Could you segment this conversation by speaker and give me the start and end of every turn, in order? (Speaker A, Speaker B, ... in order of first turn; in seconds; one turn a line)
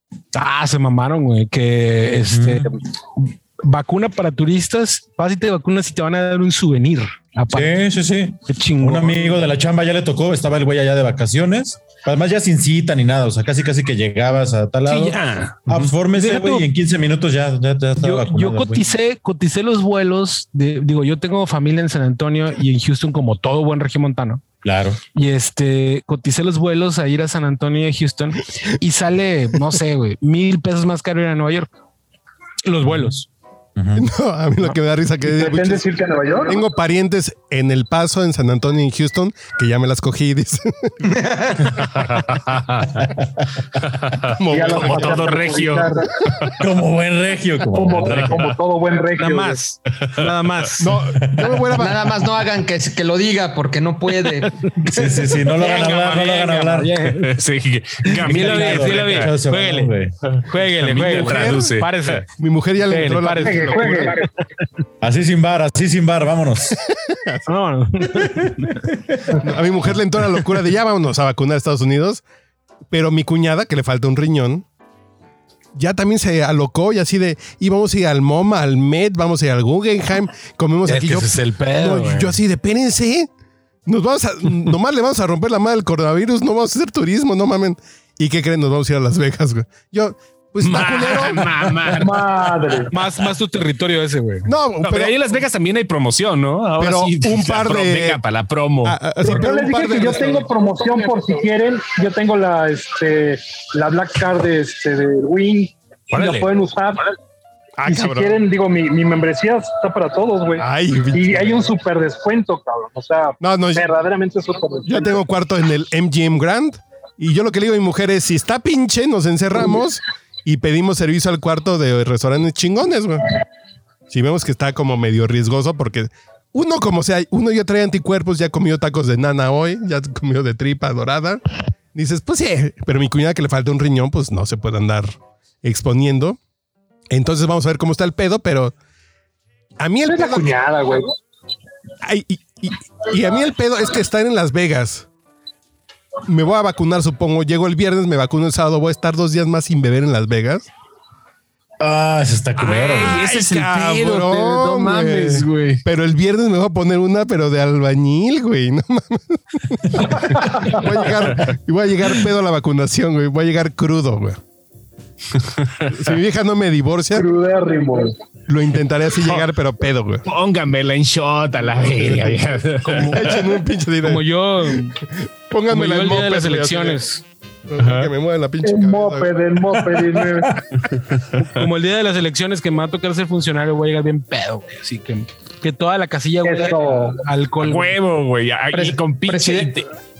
Speaker A: 0.3-7.8
Speaker B: 2.3-2.7
Speaker B: 7.5-18.9
Speaker A: 8.5-9.5
Speaker C: 14.9-15.6
Speaker A: 15.7-16.7
Speaker A: 18.0-24.6
Speaker B: 24.6-25.0
Speaker A: 25.1-31.7
Speaker A: 32.6-33.3
Speaker B: 33.8-34.1
Speaker D: 34.0-35.9
Speaker E: 35.3-36.6
Speaker D: 36.5-42.0
Speaker F: 41.1-41.6
Speaker C: 42.0-43.0
Speaker C: 43.8-45.9
Speaker D: 44.3-45.5
Speaker E: 44.5-46.1
Speaker B: 46.6-48.5
Speaker E: 47.7-49.6
Speaker A: 49.1-50.9
Speaker D: 50.8-52.1
Speaker B: 51.2-51.6
Speaker F: 51.7-54.5
Speaker A: 54.6-57.4
Speaker B: 54.8-57.0
Speaker C: 57.2-59.3
Speaker A: 58.1-59.9
Speaker B: 58.2-60.1
Speaker C: 60.3-62.2
Speaker A: 60.5-62.3
Speaker D: 61.0-61.8
Speaker D: 62.4-64.2
Speaker A: 62.9-64.1
Speaker E: 63.4-64.2
Speaker B: 65.0-66.8
Speaker D: 66.9-67.5
Speaker A: 67.5-68.8
Speaker B: 68.2-69.0
Speaker D: 69.4-72.2
Speaker D: 72.9-74.6
Speaker D: 75.8-83.3
Speaker A: 80.8-82.3
Speaker D: 83.8-91.9
Speaker C: 90.6-92.3
Speaker E: 92.0-92.9
Speaker A: 92.9-94.5
Speaker D: 94.4-95.2
Speaker C: 94.8-99.0
Speaker D: 96.8-98.2
Speaker D: 98.8-100.5
Speaker E: 99.2-107.1
Speaker A: 106.2-106.4
Speaker D: 107.8-108.4
Speaker E: 107.8-115.2
Speaker D: 110.6-111.7
Speaker D: 113.4-113.9
Speaker D: 114.8-123.2
Speaker D: 124.1-131.4
Speaker D: 131.9-136.4
Speaker D: 137.1-138.7
Speaker D: 139.8-140.6
Speaker E: 140.0-141.1
Speaker D: 142.0-145.1
Speaker D: 146.3-150.7
Speaker B: 151.8-153.2
Speaker C: 152.6-155.8
Speaker D: 153.1-164.4
Speaker E: 160.4-160.7
Speaker D: 165.9-167.3
Speaker E: 167.1-168.1
Speaker D: 168.5-170.2
Speaker C: 170.2-173.4
Speaker D: 172.0-172.4
Speaker A: 172.8-173.5
Speaker D: 173.0-177.0
Speaker A: 174.0-175.0
Speaker A: 175.7-177.2
Speaker D: 177.7-179.4
Speaker C: 177.8-178.1
Speaker E: 178.6-180.6
Speaker B: 179.8-180.6
Speaker C: 181.2-181.6
Speaker A: 181.5-188.0
Speaker E: 186.4-187.2
Speaker C: 187.6-189.9
Speaker F: 188.7-189.8